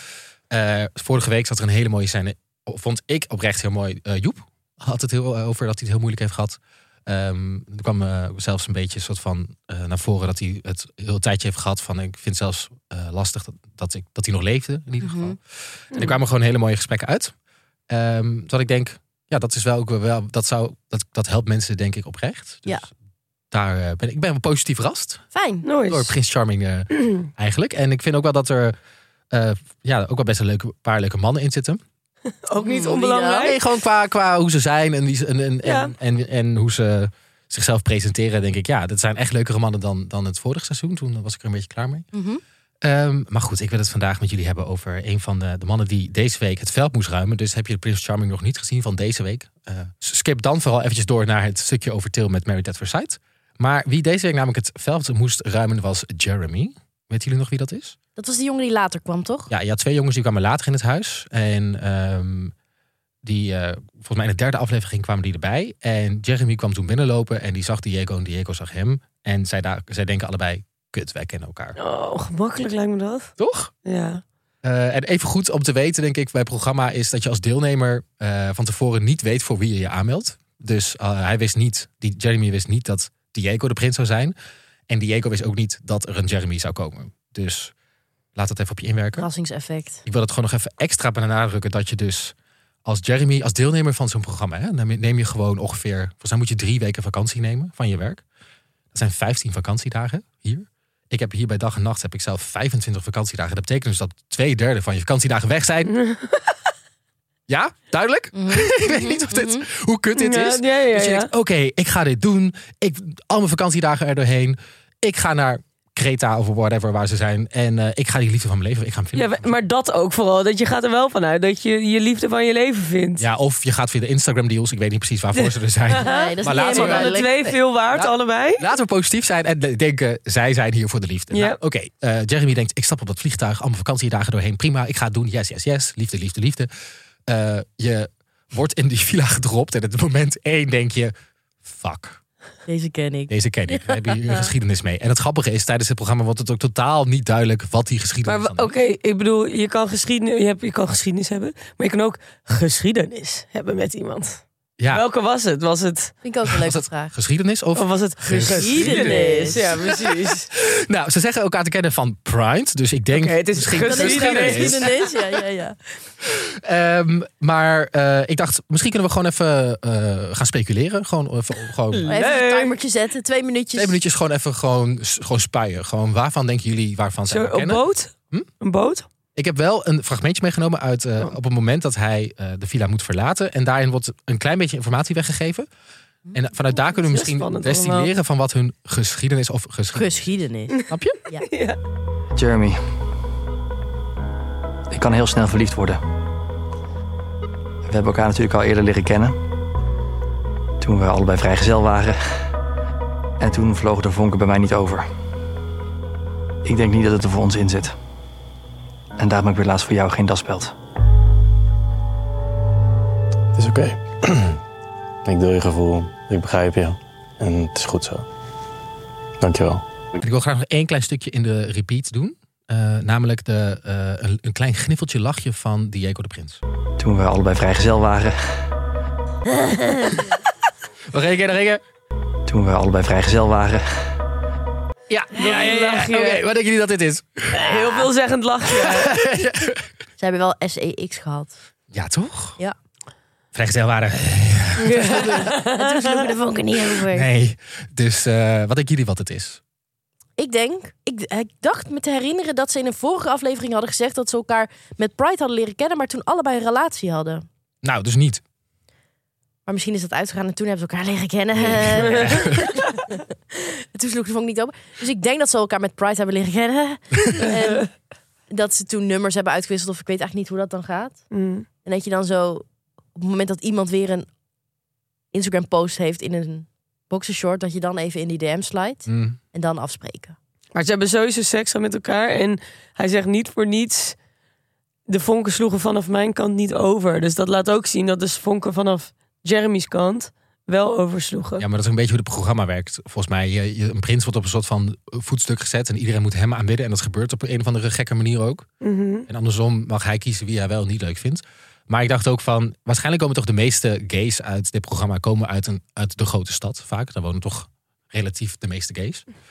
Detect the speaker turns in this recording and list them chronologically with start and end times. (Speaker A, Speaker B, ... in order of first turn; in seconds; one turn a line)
Speaker A: 0.5-15.4
Speaker B: 15.0-15.4
Speaker A: 15.9-17.3
Speaker A: 17.9-22.9
Speaker A: 23.5-25.2
Speaker B: 25.3-25.6
Speaker C: 25.6-26.1
Speaker A: 25.9-28.7
Speaker A: 29.3-31.8
Speaker C: 32.4-33.6
Speaker B: 32.6-33.5
Speaker A: 33.4-42.1
Speaker C: 35.6-35.9
Speaker B: 42.1-42.4
Speaker A: 42.8-58.0
Speaker B: 58.2-59.5
Speaker A: 59.5-62.5
Speaker A: 63.2-71.8
Speaker C: 71.8-73.3
Speaker A: 73.4-73.7
Speaker C: 73.8-74.2
Speaker A: 74.6-84.3
Speaker A: 84.9-87.7
Speaker A: 88.3-89.3
Speaker B: 89.2-90.0
Speaker A: 90.0-98.2
Speaker A: 98.9-105.9
Speaker C: 105.9-106.5
Speaker A: 107.5-119.4
Speaker B: 108.3-109.6
Speaker C: 110.2-111.3
Speaker C: 119.1-123.2
Speaker A: 123.2-136.7
Speaker C: 125.4-128.7
Speaker B: 126.0-127.5
Speaker C: 131.3-131.6
Speaker A: 137.3-141.1
Speaker A: 141.6-142.2
Speaker B: 142.7-144.4
Speaker A: 143.3-148.7
Speaker C: 148.2-156.2
Speaker A: 154.8-155.0
Speaker B: 156.2-157.1
Speaker A: 156.4-164.9
Speaker C: 157.7-160.5
Speaker B: 158.3-159.7
Speaker C: 163.1-165.0
Speaker B: 163.8-165.8
Speaker A: 166.2-172.1
Speaker C: 171.9-172.8
Speaker B: 172.1-174.0
Speaker A: 173.7-178.5
Speaker C: 177.3-179.0
Speaker A: 179.3-185.7
Speaker A: 186.3-190.3
Speaker C: 186.9-188.1
Speaker B: 189.9-191.4
Speaker A: 190.9-191.2
Speaker C: 191.4-191.8
Speaker D: 192.3-192.8
Speaker D: 194.9-196.0
Speaker D: 197.8-199.4
Speaker D: 200.8-202.5
Speaker D: 203.4-205.1
Speaker D: 206.6-208.0
Speaker D: 209.2-210.7
Speaker E: 213.5-214.6
Speaker E: 215.2-218.2
Speaker E: 219.4-219.8
Speaker A: 220.2-226.6
Speaker D: 227.0-228.7
Speaker A: 231.1-231.8
Speaker D: 232.5-234.2
Speaker A: 235.1-237.8
Speaker C: 235.3-236.4
Speaker C: 237.5-239.2
Speaker A: 238.7-239.8
Speaker B: 240.2-241.5
Speaker A: 241.9-242.6
Speaker A: 243.5-245.5
Speaker C: 244.8-246.2
Speaker B: 245.0-247.3
Speaker A: 246.9-249.6
Speaker B: 250.4-257.4
Speaker A: 257.8-258.4
Speaker B: 259.6-267.9
Speaker A: 261.5-262.8
Speaker C: 262.1-262.4
Speaker C: 267.5-267.8
Speaker B: 268.5-271.2
Speaker C: 271.3-271.6
Speaker B: 271.8-274.3
Speaker B: 275.3-280.4
Speaker A: 279.1-279.4
Speaker C: 280.7-284.1
Speaker C: 285.1-291.6
Speaker A: 291.6-298.7
Speaker C: 298.8-299.3
Speaker A: 299.3-309.2